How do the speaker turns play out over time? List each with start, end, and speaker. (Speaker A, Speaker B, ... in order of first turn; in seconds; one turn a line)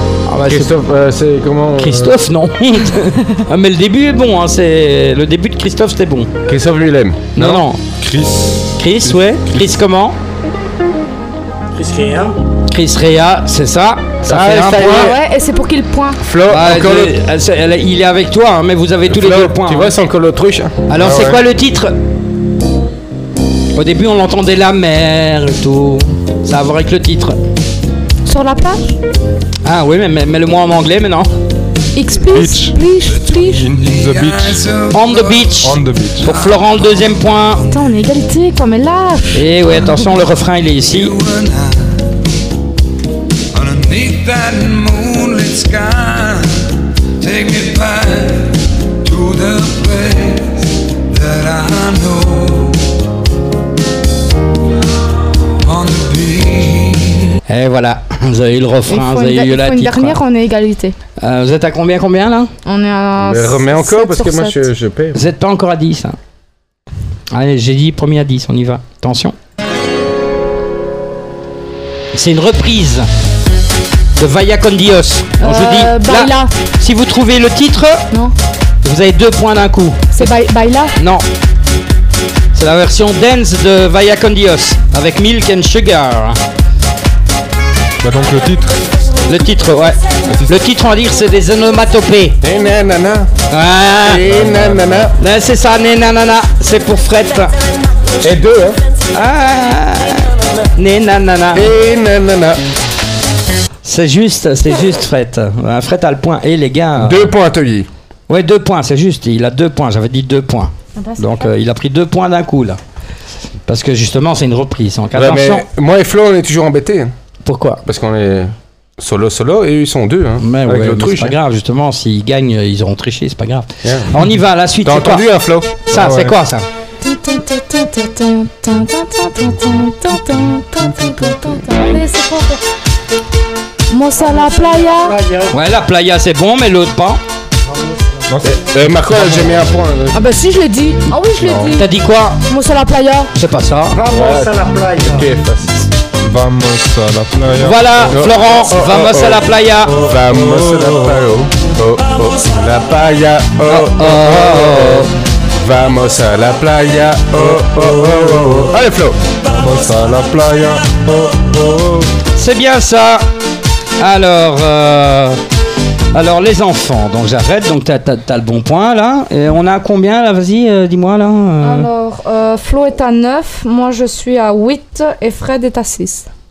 Speaker A: 0.3-0.7
Speaker B: 0.5-2.1
Speaker A: 1.8-6.4
Speaker B: 6.5-7.6
Speaker A: 7.3-7.8
Speaker C: 8.0-8.7
Speaker A: 8.8-10.1
Speaker D: 11.7-12.3
Speaker A: 12.7-15.1
Speaker B: 14.2-15.2
Speaker E: 14.8-16.2
Speaker B: 16.2-17.1
Speaker A: 16.5-19.9
Speaker B: 19.1-20.7
Speaker A: 20.9-21.9
Speaker C: 21.0-21.4
Speaker A: 23.7-27.4
Speaker E: 28.2-28.8
Speaker A: 29.6-31.3
Speaker E: 31.9-33.6
Speaker C: 32.3-34.7
Speaker A: 34.9-37.6
Speaker C: 35.6-36.4
Speaker E: 37.6-40.1
Speaker A: 39.3-41.2
Speaker F: 43.8-44.1
Speaker F: 45.0-46.4
Speaker F: 47.2-48.3
Speaker F: 49.3-49.8
Speaker F: 51.2-52.5
Speaker F: 55.9-56.9
Speaker A: 57.5-60.2
Speaker E: 58.9-61.0
Speaker A: 61.2-62.5
Speaker E: 62.6-64.6
Speaker B: 63.2-65.2
Speaker A: 65.1-66.2
Speaker A: 67.3-69.3
Speaker A: 72.1-73.1
Speaker A: 74.2-78.0
Speaker E: 75.4-76.5
Speaker A: 78.8-80.3
Speaker E: 80.1-80.9
Speaker A: 81.0-81.2
Speaker A: 82.5-86.4
Speaker C: 88.0-88.8
Speaker A: 89.3-92.3
Speaker C: 90.3-90.5
Speaker B: 92.4-93.3
Speaker A: 93.5-97.5
Speaker B: 94.0-95.1
Speaker C: 94.4-94.8
Speaker B: 98.2-98.8
Speaker A: 99.1-101.7
Speaker B: 101.5-102.6
Speaker A: 103.8-107.3
Speaker B: 107.0-107.9
Speaker A: 108.3-112.8
Speaker E: 111.0-111.5
Speaker A: 113.7-115.7
Speaker B: 115.1-117.1
Speaker A: 117.4-117.8
Speaker B: 117.8-121.3
Speaker A: 120.4-125.2
Speaker B: 124.8-125.8
Speaker A: 125.8-126.6
Speaker C: 125.9-126.3
Speaker E: 127.0-132.6
Speaker E: 133.9-135.2
Speaker D: 134.2-135.5
Speaker A: 135.5-137.2
Speaker D: 137.7-138.3
Speaker C: 138.3-139.6
Speaker B: 138.4-140.2
Speaker E: 140.1-141.9
Speaker C: 141.4-141.7
Speaker A: 141.7-142.4
Speaker E: 142.4-143.3
Speaker A: 143.3-144.0
Speaker D: 143.9-145.3
Speaker B: 144.1-145.7
Speaker C: 146.2-148.1
Speaker A: 147.6-149.9
Speaker B: 148.1-149.5
Speaker C: 149.9-151.3
Speaker B: 150.1-155.1
Speaker A: 153.7-155.1
Speaker B: 155.6-159.2
Speaker C: 157.3-158.7
Speaker C: 159.5-162.1
Speaker A: 162.4-163.2
Speaker A: 164.0-165.4
Speaker A: 166.1-171.9
Speaker E: 171.6-176.3